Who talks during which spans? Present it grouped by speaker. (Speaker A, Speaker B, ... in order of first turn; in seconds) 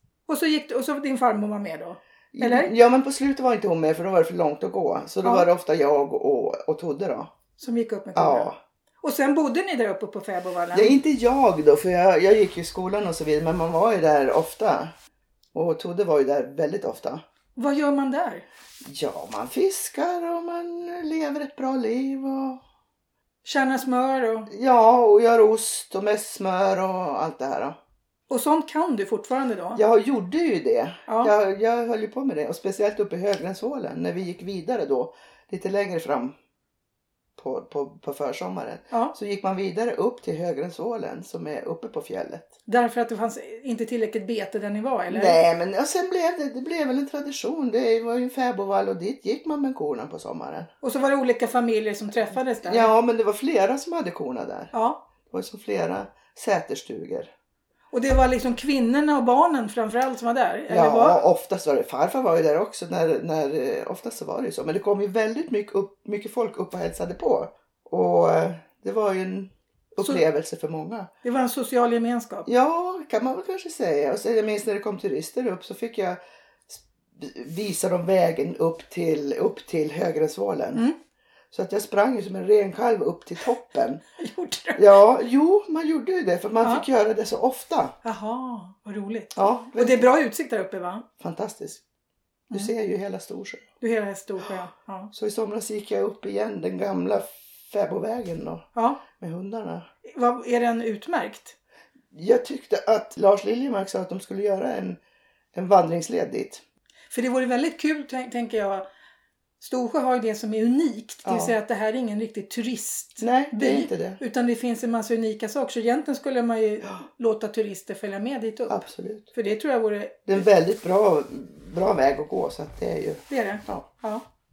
Speaker A: 0.3-2.7, 7.6-11.0, 17.6-18.4, 23.4-24.5, 28.3-29.8, 31.1-31.3, 42.7-45.4, 50.8-52.9, 54.7-55.0, 57.9-61.2, 71.2-72.5, 84.2-84.9, 88.0-91.0, 93.8-95.1, 98.7-99.0, 100.0-101.5, 107.1-108.8, 109.6-118.8, 119.3-120.4, 123.3-124.2
Speaker B: 2.3-7.3, 8.1-8.6, 10.7-14.9, 15.5-17.2, 18.8-22.6, 24.5-27.8, 29.7-36.3, 37.4-42.5, 45.1-50.7, 52.6-54.7, 55.3-57.3, 60.7-71.1, 72.5-80.8, 81.5-84.0, 84.8-87.9, 89.3-90.0, 91.2-91.8, 92.5-93.7, 95.1-99.9, 102.1-105.0, 105.5-106.6, 111.2-111.5, 113.2-114.2, 118.7-119.3, 120.2-123.8